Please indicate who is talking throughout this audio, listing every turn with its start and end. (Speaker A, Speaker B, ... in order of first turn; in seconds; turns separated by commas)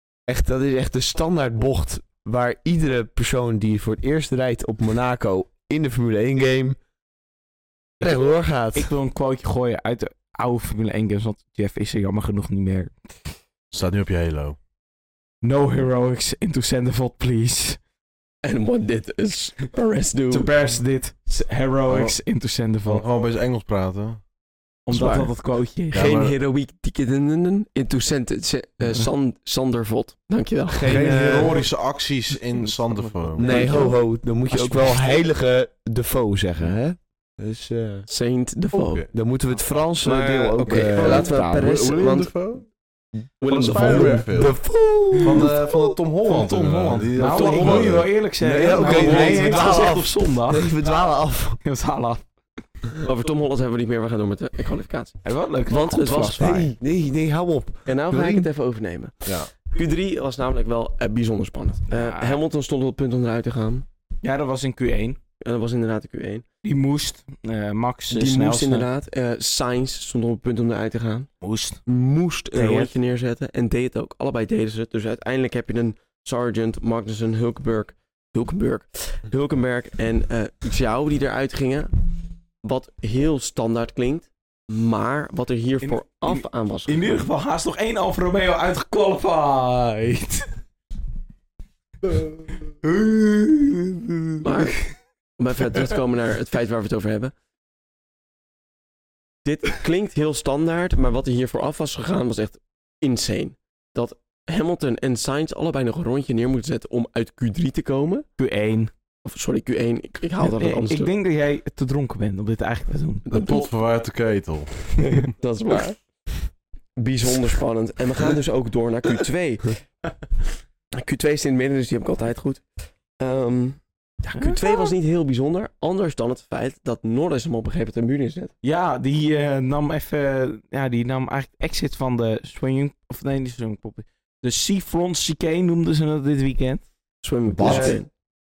Speaker A: 0.3-6.8, Speaker A: 8.0-8.9, Speaker B: 8.7-12.9, Speaker C: 13.7-14.6, Speaker B: 15.4-17.8, Speaker D: 18.4-20.5, Speaker B: 20.3-23.0, Speaker C: 21.9-22.1, Speaker C: 22.8-24.2, Speaker B: 24.9-26.0, Speaker D: 24.9-25.3, Speaker C: 25.9-26.3, Speaker D: 25.9-31.0, Speaker A: 30.7-31.7, Speaker C: 30.9-33.7, Speaker B: 32.6-33.6, Speaker A: 33.4-38.0, Speaker D: 33.4-33.9, Speaker D: 38.1-39.0, Speaker C: 38.7-39.1, Speaker A: 39.1-41.8, Speaker D: 40.0-42.3, Speaker C: 40.7-42.7, Speaker D: 43.4-44.2, Speaker C: 43.5-44.5, Speaker A: 43.5-45.7, Speaker C: 45.2-48.1, Speaker B: 46.2-50.7, Speaker D: 47.2-47.9, Speaker A: 48.4-51.6, Speaker C: 48.7-49.4, Speaker D: 48.8-49.5, Speaker B: 51.6-52.2, Speaker D: 53.0-56.8, Speaker B: 55.2-56.7, Speaker A: 56.2-58.5, Speaker D: 57.9-63.9, Speaker B: 61.9-62.4, Speaker B: 64.2-65.2, Speaker D: 65.4-66.4, Speaker B: 66.6-68.9, Speaker D: 68.1-71.3, Speaker B: 71.4-71.8, Speaker D: 71.8-81.9, Speaker B: 72.5-72.9, Speaker D: 82.6-87.1, Speaker B: 85.8-90.5, Speaker B: 92.8-94.3, Speaker D: 94.4-94.8, Speaker D: 95.4-97.3, Speaker D: 99.4-108.2, Speaker B: 108.4-108.9, Speaker D: 109.2-111.1, Speaker B: 110.4-113.6, Speaker D: 113.3-113.6, Speaker C: 113.3-115.3, Speaker D: 115.0-116.0, Speaker D: 117.0-119.8, Speaker D: 120.9-122.6, Speaker D: 123.2-128.5, Speaker B: 124.3-124.9, Speaker B: 128.6-136.8, Speaker D: 137.2-138.1, Speaker A: 137.5-138.0, Speaker B: 137.6-138.0